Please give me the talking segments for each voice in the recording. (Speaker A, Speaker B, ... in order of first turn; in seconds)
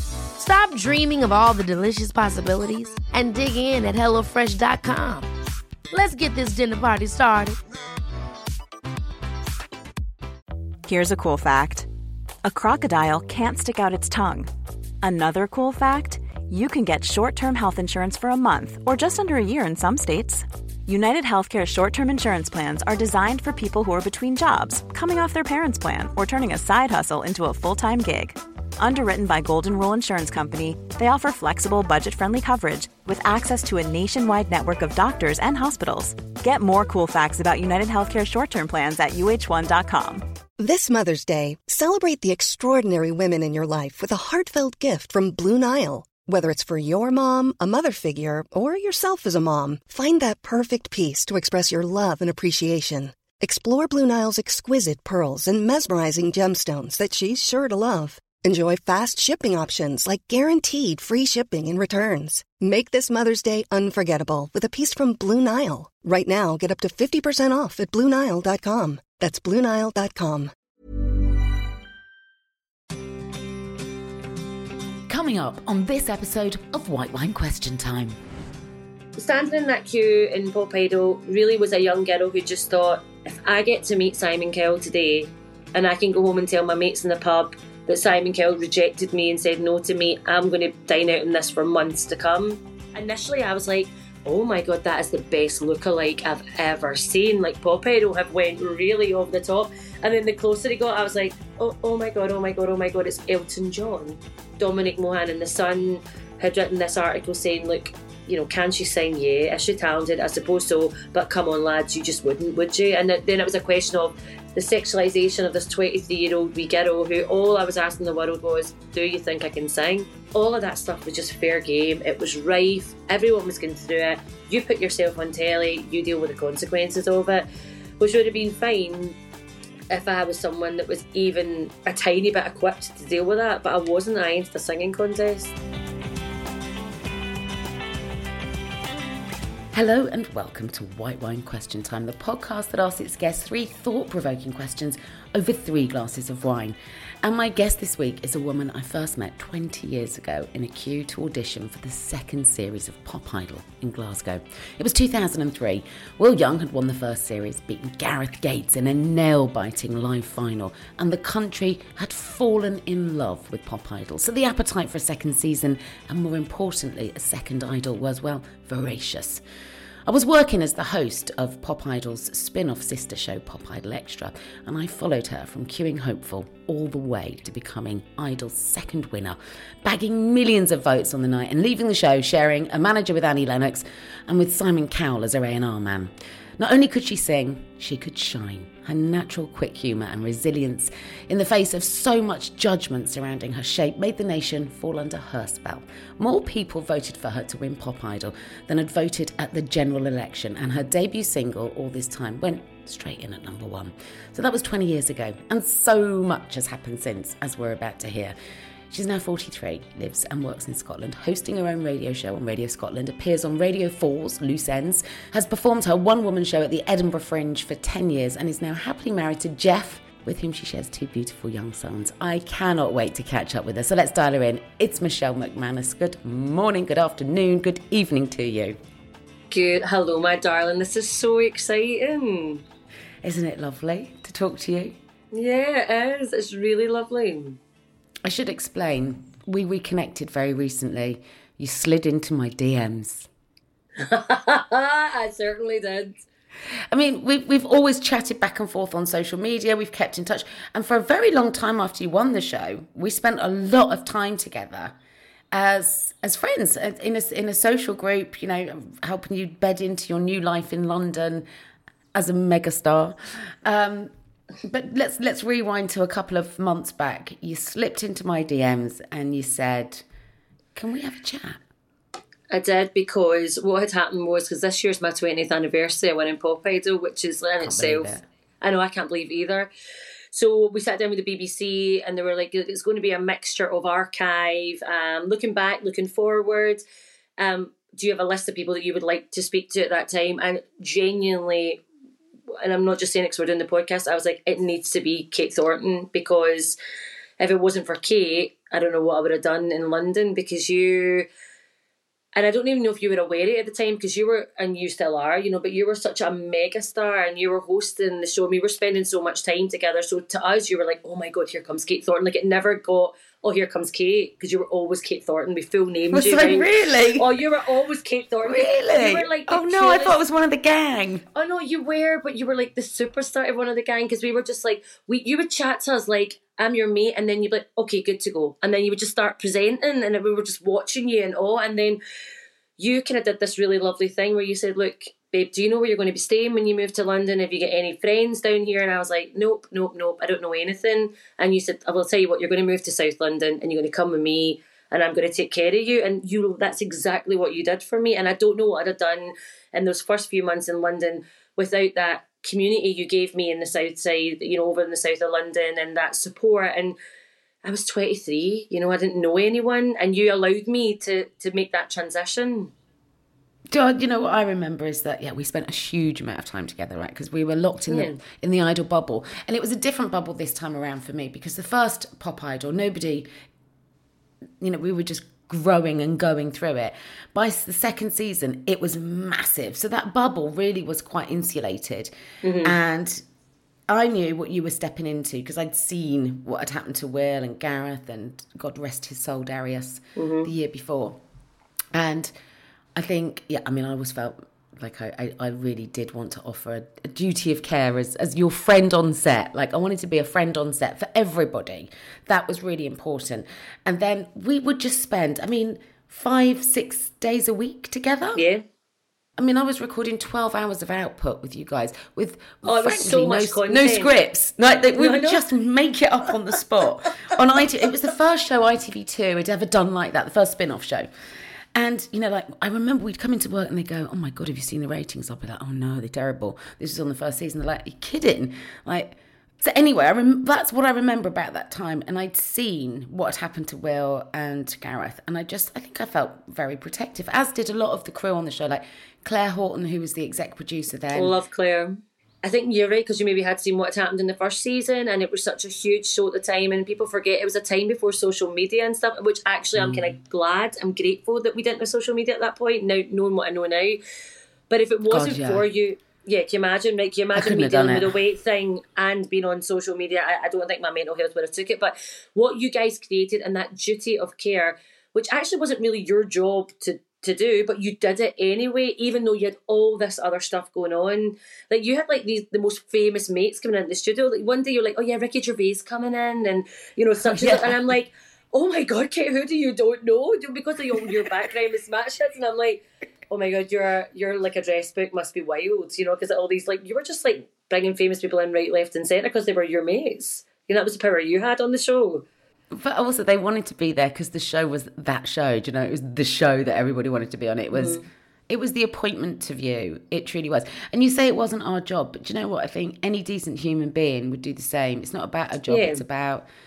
Speaker A: 0.4-5.3, 5.9-7.6
Speaker B: 10.8-11.9, 12.4-14.5, 15.0-40.2
Speaker C: 40.6-70.5
Speaker D: 75.1-78.2, 139.7-169.4, 170.1-208.3, 208.9-228.8, 233.2-235.0, 238.2-243.3, 246.9-255.0, 255.5-261.5, 262.1-270.1, 270.8-271.6, 277.6-278.3, 316.1-317.4, 318.4-321.3, 363.7-373.3, 374.6-383.2, 383.9-391.2, 391.9-392.3, 392.9-408.4, 409.4-421.1, 421.7-441.3, 449.8-450.1, 455.1-455.7, 457.3-458.2, 477.2-477.8, 492.7-506.5
Speaker E: 79.2-127.5, 128.0-129.2, 129.9-135.5, 229.5-232.6, 235.3-237.6, 244.0-246.2, 272.5-279.7, 280.3-286.8, 287.4-291.8, 292.6-296.8, 297.4-301.3, 302.4-320.2, 321.3-332.0, 332.8-357.0, 357.6-362.7, 367.9-368.2, 382.4-382.8, 390.2-390.5, 408.4-408.6, 412.6-414.1, 415.0-415.4, 441.1-454.0, 454.7-492.2, 497.7-498.1, 505.7-506.0